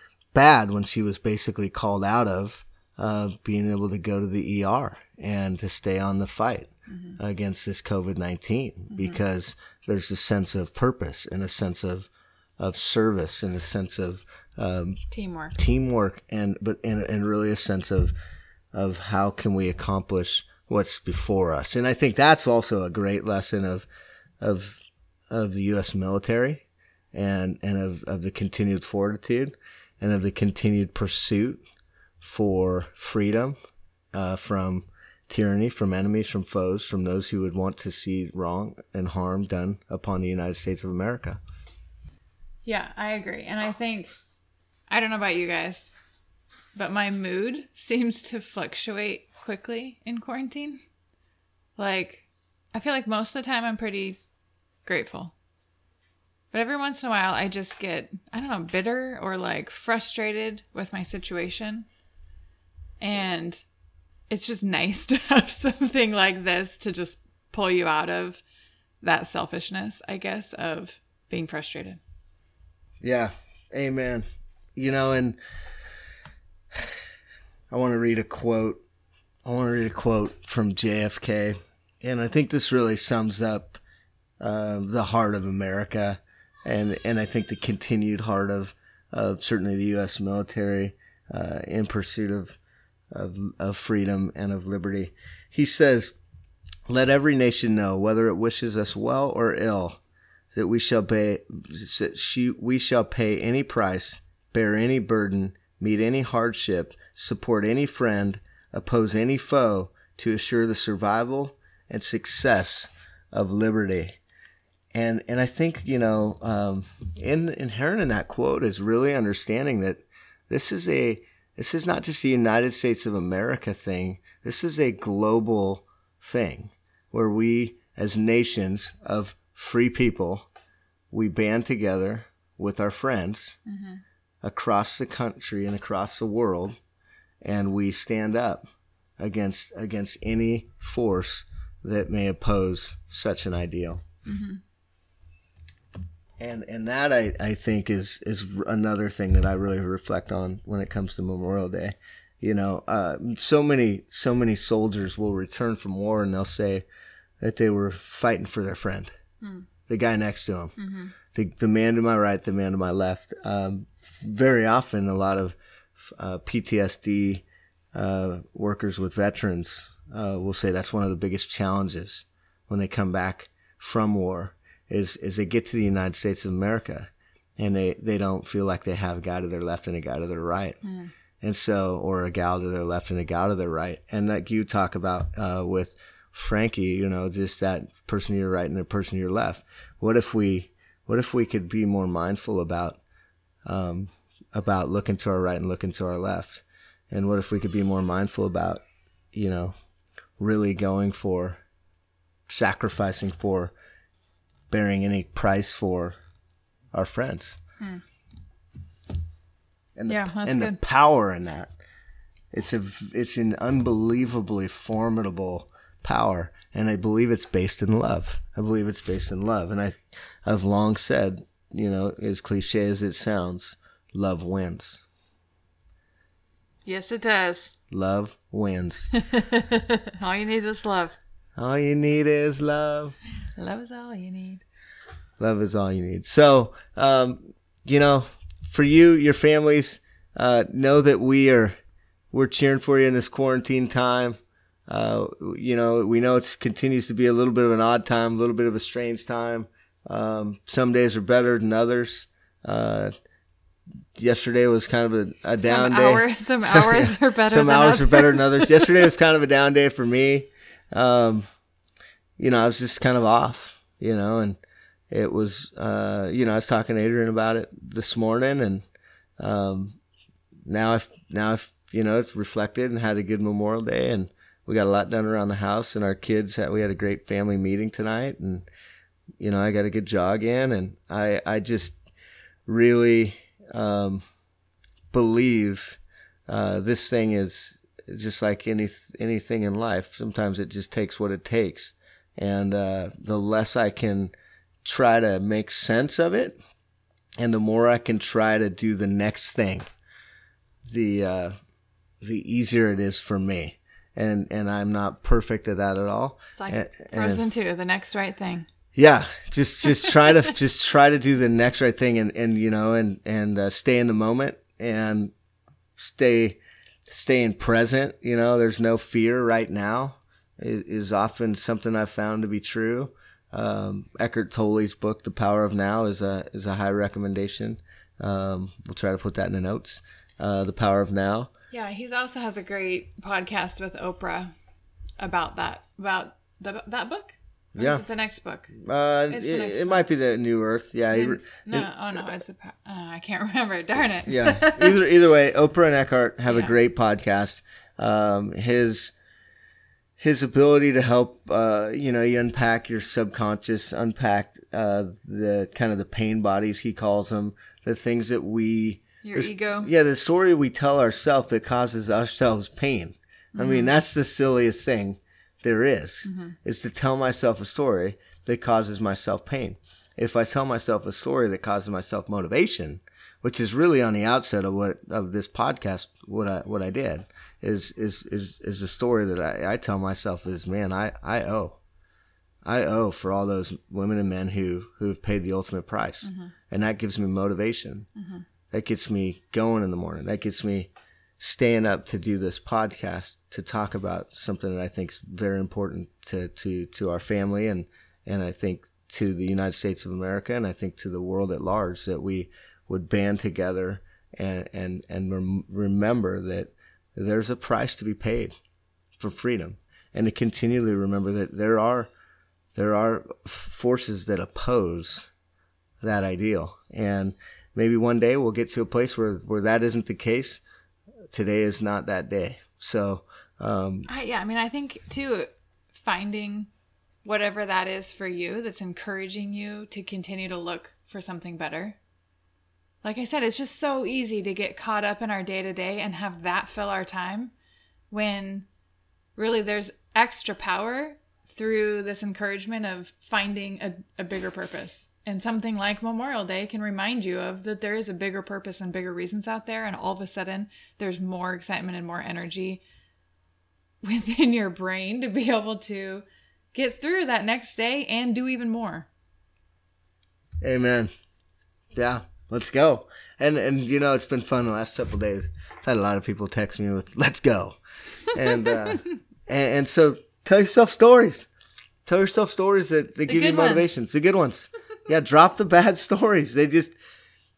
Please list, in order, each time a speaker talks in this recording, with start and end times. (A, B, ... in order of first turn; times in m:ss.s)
0:00.3-0:15.0 A
0:06.9-0:07.2 B
0:15.1-0:15.5 B
0:15.5-0:18.1 A
0:18.7-0:23.9 A
0:24.4-0:31.6 A
0:32.2-0:33.5 A
0:34.1-0:41.4 A
0:42.6-0:44.1 B
0:44.9-0:45.9 B
0:46.8-0:50.8 B
0:51.8-0:54.2 B
0:54.8-0:55.3 B
0:56.5-1:01.8 B
1:03.0-1:03.6 B
1:04.3-1:08.4 B
1:09.0-1:12.0 B
1:13.0-1:15.4 A
1:17.7-1:18.8 A
1:19.4-1:23.8 A
1:24.4-1:32.6 A
1:33.1-1:36.2 A
1:36.9-1:40.0 A
1:40.5-1:54.2 A
1:54.9-2:10.5 A
2:11.1-2:13.6 A
2:13.7-2:14.0 B
2:14.4-2:16.8 A
2:17.4-2:18.6 A
2:19.2-2:24.0 A
2:24.2-2:24.6 B
2:26.4-2:36.8 A
2:37.4-2:39.1 A
2:39.4-2:39.7 B
2:39.9-2:40.7 A
2:40.8-2:41.1 B
2:41.3-3:00.8 A
3:00.8-3:01.1 B
3:01.4-3:13.0 A
3:13.6-3:19.7 A
3:20.4-3:21.6 A
3:22.5-3:23.7 A
3:24.7-3:26.2 A
3:26.9-3:27.6 A
3:30.0-3:31.7 A
3:30.1-3:30.8 B
3:32.5-3:45.0 A
3:46.8-3:47.7 B
3:47.9-3:49.1 A
3:49.2-3:51.2 B
3:51.6-3:53.2 A
3:53.6-3:54.6 B
3:55.4-4:01.7 A
4:02.3-4:13.1 A
4:14.2-4:21.4 A
4:15.6-4:19.1 B
4:22.4-4:24.6 A
4:25.1-4:28.8 A
4:29.4-4:30.0 A
4:30.7-4:38.7 A
4:39.4-4:42.0 A
4:42.6-4:44.2 A
4:45.1-4:54.3 A
4:54.8-4:56.6 A
4:57.4-4:59.9 A
5:00.8-5:01.6 A
5:02.2-5:07.4 A
5:06.5-5:08.6 B
5:08.9-5:15.3 A
5:16.0-5:31.5 A
5:31.7-5:34.5 B
5:35.2-5:38.7 B
5:37.7-5:38.0 A
5:38.7-5:41.9 A
5:39.3-5:40.0 B
5:41.1-5:45.0 B
5:44.3-5:49.1 A
5:46.5-5:46.7 B
5:50.2-6:21.8 A
5:59.2-5:59.9 B
6:03.5-6:03.9 B
6:06.2-6:06.6 B
6:22.6-6:28.1 A
6:26.2-6:26.5 B
6:28.2-6:28.4 B
6:28.7-6:48.6 A
6:49.2-6:52.1 A
6:52.7-6:55.3 A
6:56.0-7:00.6 A
7:01.3-7:04.1 A
7:04.1-7:06.7 B
7:07.2-7:12.0 B
7:13.0-7:17.5 B
7:18.1-7:18.7 B
7:19.4-7:32.8 B
7:34.0-7:39.1 B
7:40.6-7:41.1 A
7:41.9-7:47.8 A
7:48.3-7:51.5 A
7:52.0-7:56.9 A
7:53.3-7:53.9 B